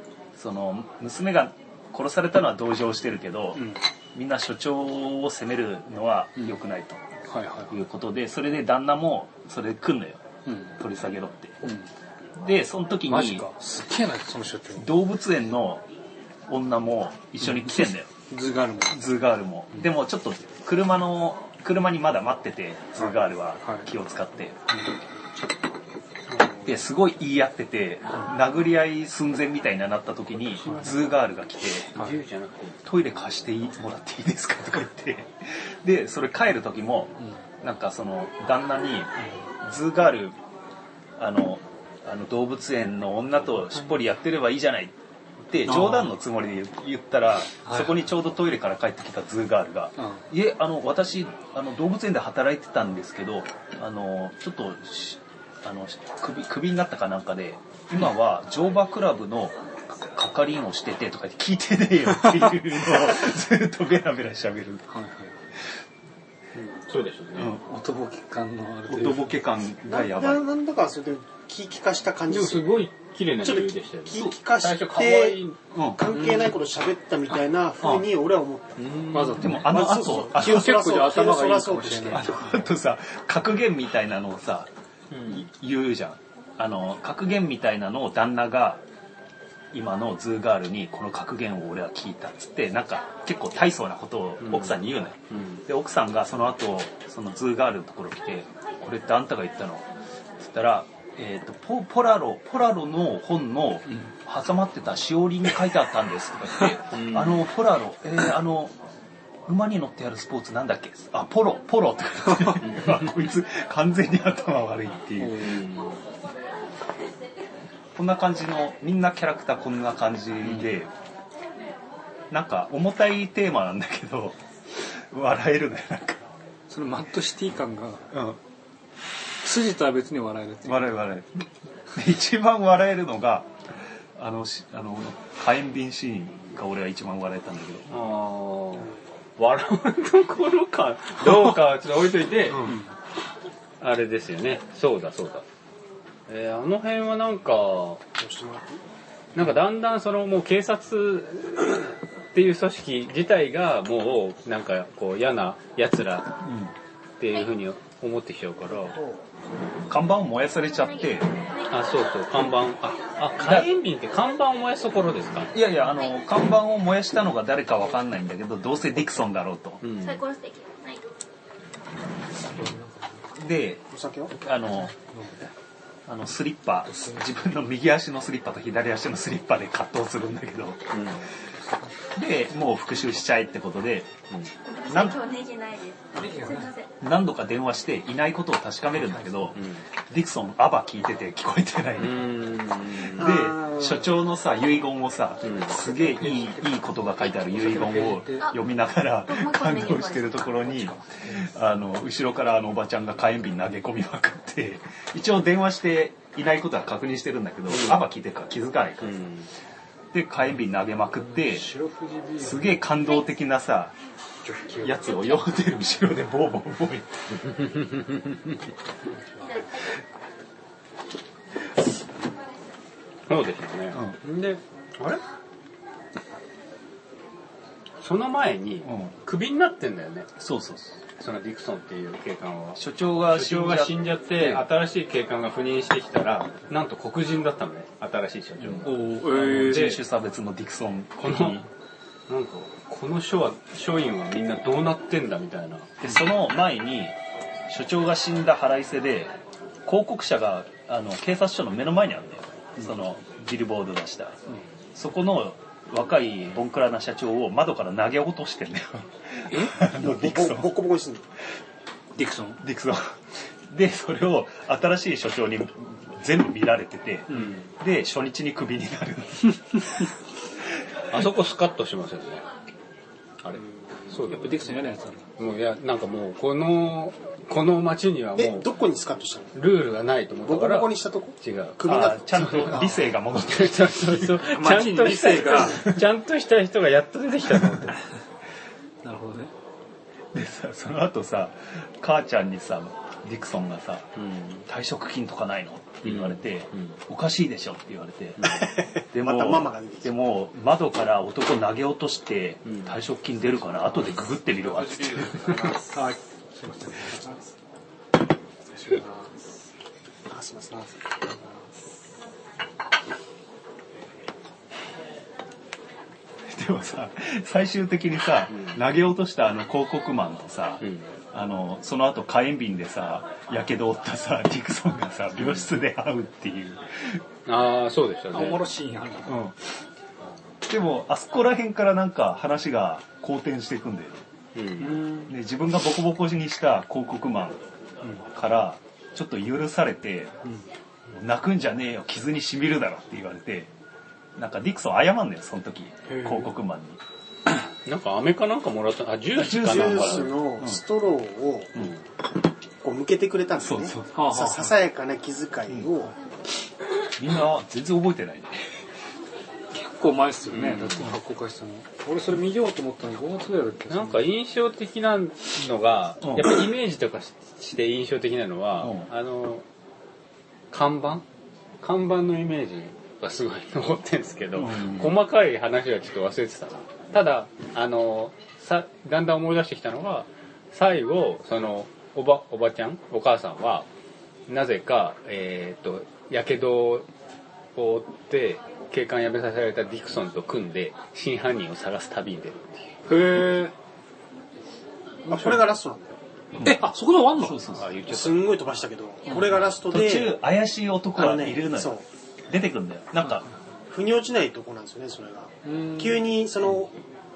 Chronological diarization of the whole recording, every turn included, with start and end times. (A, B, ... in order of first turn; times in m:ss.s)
0:00.4-0:03.6 A
0:03.6-0:03.8 B
0:04.2-0:07.0 A
0:07.3-0:07.8 B
0:07.7-0:10.2 A
0:10.5-0:10.7 B
0:10.8-0:11.6 A
0:11.6-0:11.9 B
0:12.4-0:13.5 A
0:13.1-0:14.9 B
0:14.8-0:15.8 A
0:16.5-0:18.1 A
0:17.4-0:19.0 B
0:18.9-0:24.6 A
0:23.0-0:23.9 B
0:26.6-0:31.9 A
0:30.6-0:31.0 B
0:31.9-0:32.8 C
0:32.0-0:32.2 B
0:32.8-0:40.4 A
0:41.2-0:44.9 A
0:45.5-1:04.9 A
0:45.6-0:46.1 B
0:47.6-0:48.0 B
0:50.0-0:50.2 B
1:04.9-1:05.4 B
1:06.5-1:07.6 C
1:07.4-1:07.6 A
1:07.6-1:09.4 B
1:08.9-1:10.4 A
1:09.9-1:12.8 D
1:12.3-1:15.6 C
1:13.4-1:15.4 D
1:15.7-1:16.0 A
1:15.9-1:18.8 D
1:16.1-1:16.5 B
1:17.8-1:18.1 A
1:18.8-1:19.6 C
1:19.1-1:22.7 B
1:19.4-1:20.9 A
1:19.7-1:22.3 D
1:22.1-1:24.7 A
1:25.1-1:25.4 C
1:25.3-1:28.8 A
1:29.7-1:39.9 A
1:34.4-1:35.6 C
1:40.4-1:48.7 A
1:46.9-1:47.4 C
1:49.5-1:55.6 A
1:55.2-1:56.0 C
1:58.0-2:00.9 A
2:02.3-2:06.2 A
2:06.7-2:08.1 B
2:08.1-2:08.4 A
2:09.4-2:10.9 B
2:10.6-2:13.5 A
2:14.2-2:17.9 A
2:17.9-2:22.8 C
2:22.5-2:22.8 A
2:23.8-2:25.4 C
2:26.3-2:28.0 C
2:28.2-2:28.8 D
2:29.4-2:36.4 C
2:36.4-2:36.7 A
2:37.2-2:39.0 C
2:38.7-2:39.2 D
2:39.9-2:41.3 A
2:40.8-2:41.7 E
2:41.7-2:45.5 C
2:43.2-2:43.7 A
2:45.5-2:49.8 A
2:49.8-2:50.2 C
2:50.0-2:51.0 E
2:52.4-2:53.2 B
2:53.4-2:53.8 A
2:53.9-2:54.3 D
2:54.4-2:54.9 A
2:54.9-2:55.4 B
2:56.1-3:00.9 A
2:56.9-2:57.3 B
3:00.9-3:01.3 C
3:02.2-3:04.1 A
3:04.7-3:06.9 E
3:04.9-3:05.2 A
3:06.2-3:06.7 B
3:07.0-3:12.3 A
3:09.1-3:09.5 B
3:09.5-3:09.8 C
3:12.0-3:13.5 C
3:13.0-3:29.3 A
3:13.2-3:14.1 D
3:15.4-3:15.8 C
3:15.8-3:18.5 B
3:19.3-3:21.0 E
3:27.7-3:28.0 C
3:29.0-3:29.5 C
3:30.1-3:31.7 A
3:31.2-3:32.8 B
3:32.4-3:33.9 A
3:34.4-3:35.1 B
3:34.8-3:37.6 A
3:35.1-3:35.4 E
3:37.6-3:38.4 C
3:39.5-3:39.7 E
3:43.3-3:44.5 C
3:43.9-3:44.2 A
3:48.0-3:50.3 C
3:48.8-3:49.1 A
3:50.4-3:51.0 A
3:51.2-3:59.0 C
3:52.8-3:54.6 A
3:58.6-4:01.7 A
3:58.8-4:00.0 B
4:01.2-4:01.6 C
4:02.3-4:05.9 C
4:06.0-4:07.2 A
4:07.7-4:09.3 A
4:09.9-4:14.4 A
4:15.0-4:20.7 A
4:19.9-4:21.2 D
4:22.2-4:22.6 B
4:22.6-4:23.1 A
4:23.7-4:29.8 A
4:27.3-4:27.6 B
4:31.1-4:32.5 C
4:33.4-4:34.8 C
4:34.2-4:35.3 B
4:35.4-4:38.7 C
4:38.4-4:39.6 D
4:39.6-4:48.0 C
4:40.4-4:42.7 D
4:41.8-4:44.3 A
4:44.4-4:45.9 B
4:49.0-4:49.5 B
4:50.3-4:54.1 A
4:54.2-4:54.7 C
4:54.7-5:05.7 A
4:56.0-4:57.0 C
4:58.6-5:00.2 D
5:02.7-5:03.0 C
5:05.4-5:07.4 B
5:08.8-5:09.3 B
5:10.3-5:11.2 D
5:16.5-5:27.2 A
5:18.5-5:18.8 C
5:20.8-5:21.1 C
5:25.4-5:25.7 C
5:27.5-5:28.7 C
5:28.3-5:29.5 B
5:29.3-5:29.5 A
5:30.7-5:34.2 A
5:34.6-5:35.0 C
5:34.8-5:35.3 B
5:35.3-5:37.6 A
5:38.3-5:40.3 A
5:41.1-5:43.7 A
5:44.4-5:47.0 A
5:46.1-5:46.5 B
5:47.8-5:50.4 C
5:49.4-5:50.8 A
5:49.4-5:51.9 D
5:52.8-5:56.1 D
5:53.6-5:54.3 A
5:54.2-5:54.7 B
5:57.2-5:58.6 A
5:59.7-6:04.3 B
6:00.5-6:01.2 C
6:03.9-6:09.6 C
6:06.2-6:06.5 A
6:08.8-6:09.1 A
6:10.7-6:11.2 C
6:11.8-6:23.9 C
6:14.6-6:15.1 A
6:24.5-6:27.1 C
6:27.8-6:32.8 C
6:33.1-6:33.7 B
6:35.3-6:36.2 D
6:36.6-6:37.9 A
6:36.6-6:37.6 B
6:37.8-6:38.6 C
6:38.1-6:40.4 D
6:39.9-6:43.5 A
6:41.2-6:42.0 D
6:43.9-6:47.0 D
6:45.6-6:46.3 B